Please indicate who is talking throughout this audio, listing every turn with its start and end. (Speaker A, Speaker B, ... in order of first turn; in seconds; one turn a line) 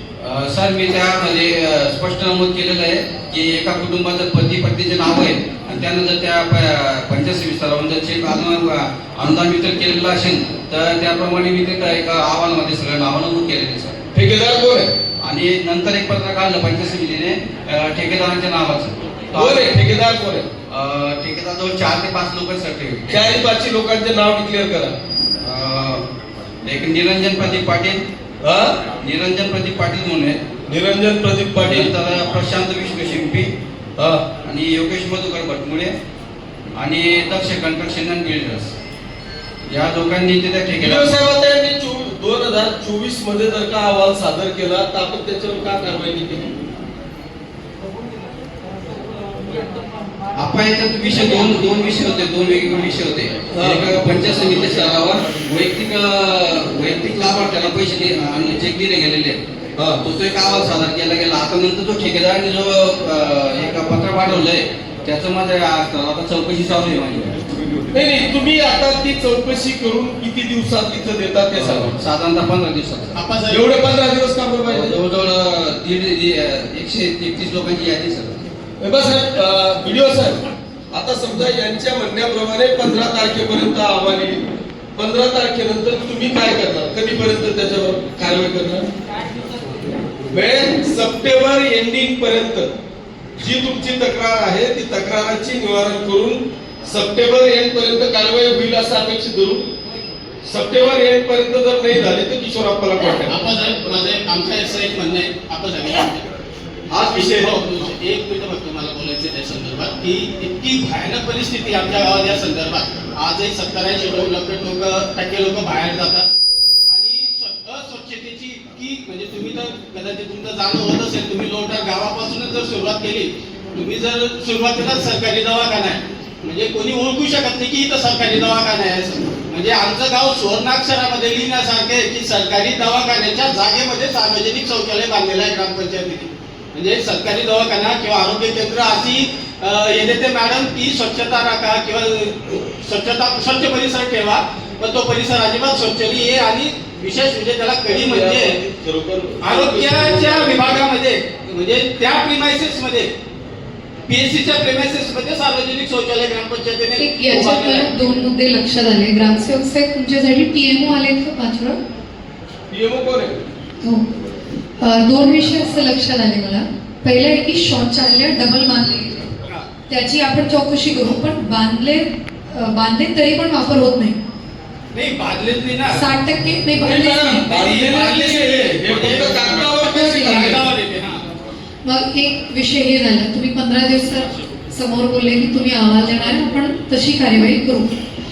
Speaker A: 0.2-14.0
Speaker B: 14.1-14.9
Speaker A: 15.2-19.7
Speaker B: 19.3-20.5
Speaker A: 20.7-23.1
Speaker B: 23.1-25.0
Speaker A: 25.4-26.1
Speaker A: 26.6-28.0
Speaker B: 28.4-28.8
Speaker A: 29.0-30.4
Speaker B: 30.7-31.9
Speaker A: 31.6-33.5
Speaker B: 34.0-34.2
Speaker A: 34.4-35.9
Speaker A: 36.7-38.8
Speaker A: 39.7-41.2
Speaker B: 40.8-46.5
Speaker A: 50.4-59.4
Speaker B: 53.5-53.9
Speaker B: 59.8-60.0
Speaker A: 60.0-67.5
Speaker B: 67.9-71.9
Speaker A: 71.5-73.2
Speaker C: 73.1-73.8
Speaker B: 73.5-75.0
Speaker A: 74.7-78.5
Speaker B: 78.8-84.4
Speaker B: 85.0-88.9
Speaker B: 90.3-92.7
Speaker B: 93.4-99.7
Speaker B: 100.4-103.3
Speaker C: 103.2-106.2
Speaker B: 106.9-107.6
Speaker C: 107.1-116.2
Speaker C: 116.9-148.5
Speaker B: 147.9-150.8
Speaker C: 149.4-153.1
Speaker C: 154.1-157.9
Speaker D: 157.0-161.8
Speaker B: 162.7-163.4
Speaker D: 164.8-169.3
Speaker D: 169.9-174.2
Speaker C: 174.9-176.0
Speaker D: 175.9-177.6
Speaker B: 176.8-180.7
Speaker C: 177.5-181.2
Speaker D: 179.8-180.4
Speaker D: 181.8-187.9